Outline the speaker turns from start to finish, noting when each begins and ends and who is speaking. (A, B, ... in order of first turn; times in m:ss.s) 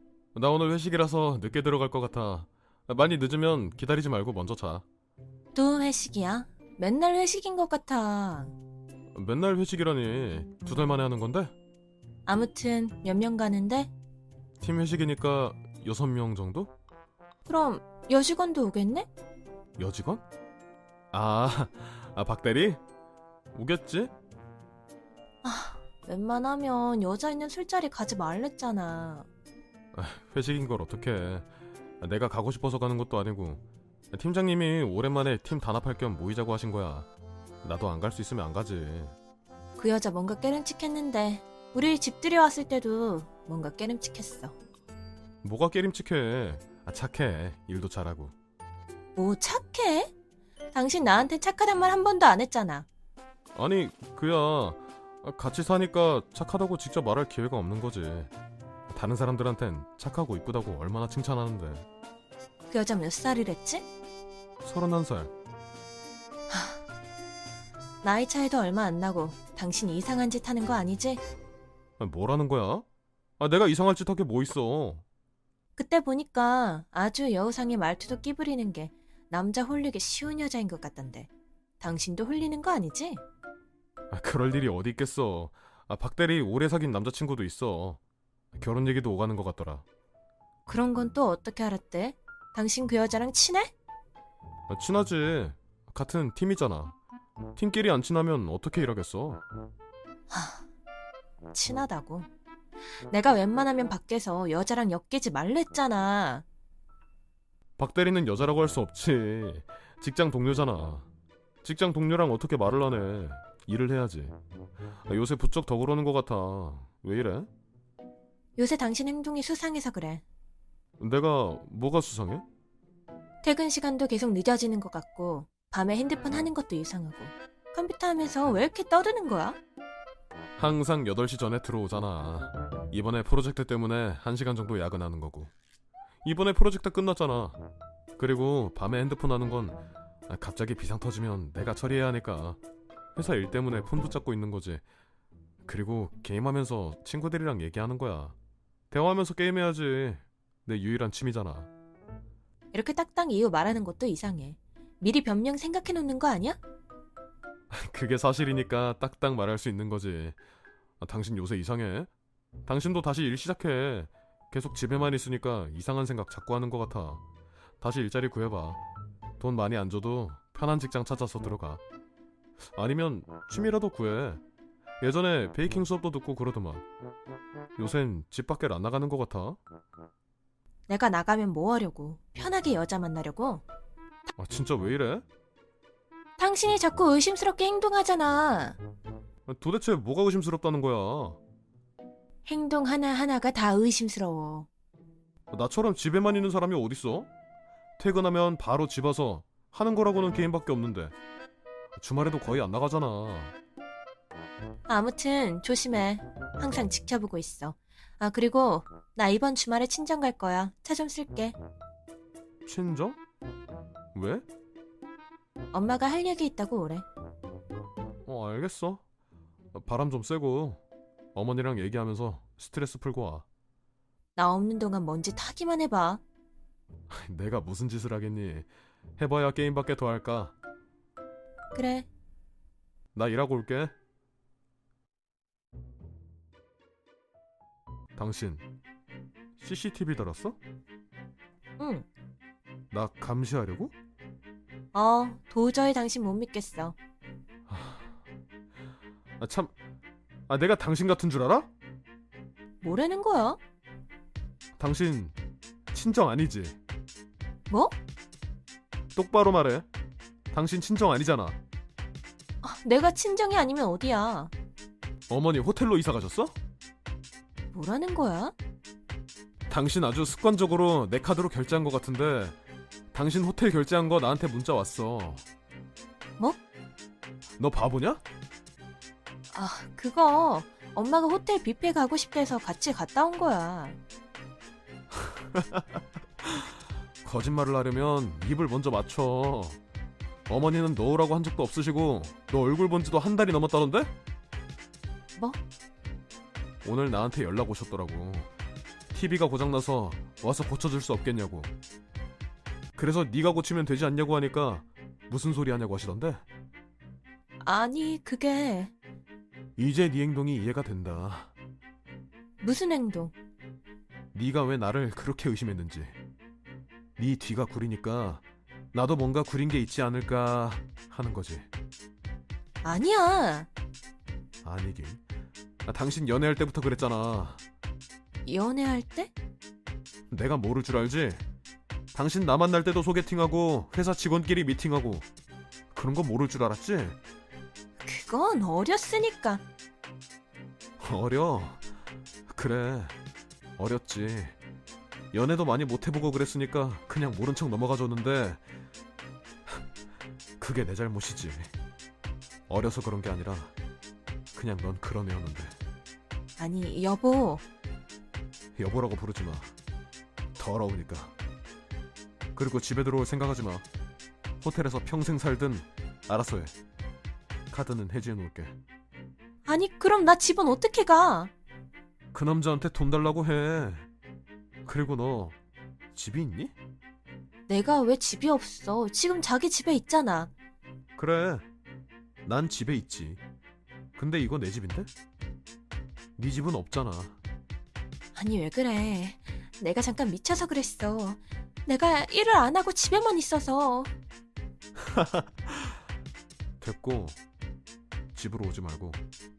0:00.3-0:04.8 A
0:05.5-0:08.5 B
0:09.1-0:11.5 A
0:12.2-0:13.9 B
0:14.6-0:16.7 A
0:17.4-0:19.1 B
0:19.8-0:20.2 A
0:21.1-0:22.8 A
0:23.5-0:24.1 A
0:25.4-0:29.3 B
0:29.9-0:31.5 A
0:32.0-0:37.1 A
0:37.6-0:39.1 A
0:39.8-0:44.5 B
0:45.4-0:48.3 A
0:49.2-0:50.1 B
0:50.7-0:52.9 B
0:53.6-0:58.3 A
0:58.9-1:01.8 A
1:02.7-1:03.8 B
1:04.6-1:05.3 A
1:06.5-1:06.8 B
1:08.0-1:11.2 B
1:12.0-1:12.8 A
1:13.4-1:15.0 A
1:15.8-1:21.3 B
1:21.8-1:23.2 B
1:24.1-1:28.0 A
1:28.5-1:29.8 A
1:30.6-1:33.7 B
1:34.7-1:37.0 A
1:37.6-1:39.4 A
1:40.3-1:40.6 B
1:41.5-1:42.3 B
1:43.1-1:46.4 B
1:47.8-1:51.1 A
1:51.6-1:54.4 A
1:55.0-1:57.5 A
1:58.6-2:00.2 B
2:01.0-2:02.4 A
2:03.4-2:09.6 B
2:10.6-2:15.5 A
2:16.2-2:17.6 A
2:18.2-2:22.6 A
2:23.2-2:24.8 A
2:25.6-2:28.3 A
2:28.9-2:31.7 A
2:32.7-2:36.6 B
2:37.7-2:40.4 A
2:41.0-2:42.1 A
2:42.6-2:47.2 A
2:47.8-2:48.8 A
2:49.4-2:51.8 A
2:52.7-2:54.4 A
2:55.0-2:56.8 A
2:57.8-2:59.6 A
3:00.9-3:03.6 B
3:04.4-3:05.2 A
3:06.4-3:08.8 B
3:09.5-3:11.4 A
3:12.4-3:14.7 B
3:15.5-3:17.3 A
3:18.0-3:21.1 A
3:22.0-3:23.5 A
3:24.9-3:31.6 B
3:32.6-3:33.2 A
3:34.1-3:34.4 A
3:35.7-3:37.0 B
3:38.2-3:39.0 A
3:39.7-3:40.8 A
3:41.3-3:43.4 A
3:44.4-3:46.2 B
3:47.1-3:50.5 A
3:51.7-3:52.1 B
3:53.1-3:53.9 A
3:58.1-3:58.6 A
3:59.6-4:00.6 A
4:01.8-4:02.1 B
4:02.9-4:03.9 A
4:04.9-4:07.0 B
4:07.7-4:08.0 A
4:09.4-4:09.7 A
4:10.5-4:11.7 A
4:12.8-4:13.6 B
4:14.8-4:15.3 A
4:15.9-4:16.8 A
4:19.1-4:19.9 A
4:20.5-4:21.6 A
4:22.6-4:24.5 B
4:25.3-4:26.5 A
4:27.7-4:28.5 B
4:29.7-4:32.6 A
4:33.1-4:35.4 A
4:37.6-4:38.2 A
4:39.5-4:44.0 B
4:45.1-4:46.7 A
4:47.2-4:49.8 A
4:50.5-4:54.1 A
4:56.8-4:58.5 A
4:59.1-5:01.7 A
5:03.0-5:06.4 A
5:07.6-5:08.9 B
5:09.8-5:11.5 A
5:12.6-5:13.3 B
5:14.3-5:16.2 A
5:17.2-5:21.7 A
5:22.8-5:23.7 B
5:24.6-5:25.2 A
5:25.8-5:27.6 A
5:28.4-5:29.3 B
5:30.3-5:31.4 A
5:32.1-5:35.3 A
5:35.9-5:37.2 A
5:38.0-5:39.6 B
5:41.0-5:41.8 A
5:42.5-5:43.1 A
5:43.8-5:44.6 A
5:45.3-5:48.6 A
5:50.6-5:51.7 A
5:52.7-5:53.7 A
5:54.5-5:55.7 A
5:56.6-5:57.6 B
5:58.8-5:59.7 A
6:00.6-6:01.3 A
6:02.5-6:03.8 A
6:04.6-6:06.7 A
6:07.7-6:08.8 A
6:09.6-6:11.5 B
6:12.3-6:14.1 A
6:14.8-6:15.6 A
6:16.1-6:16.7 A
6:17.7-6:20.5 B
6:21.2-6:21.6 A
6:22.4-6:23.4 A
6:24.2-6:25.1 A
6:26.4-6:27.4 A
6:28.3-6:34.1 B
6:35.0-6:35.9 A
6:36.8-6:37.4 A
6:38.3-6:39.2 A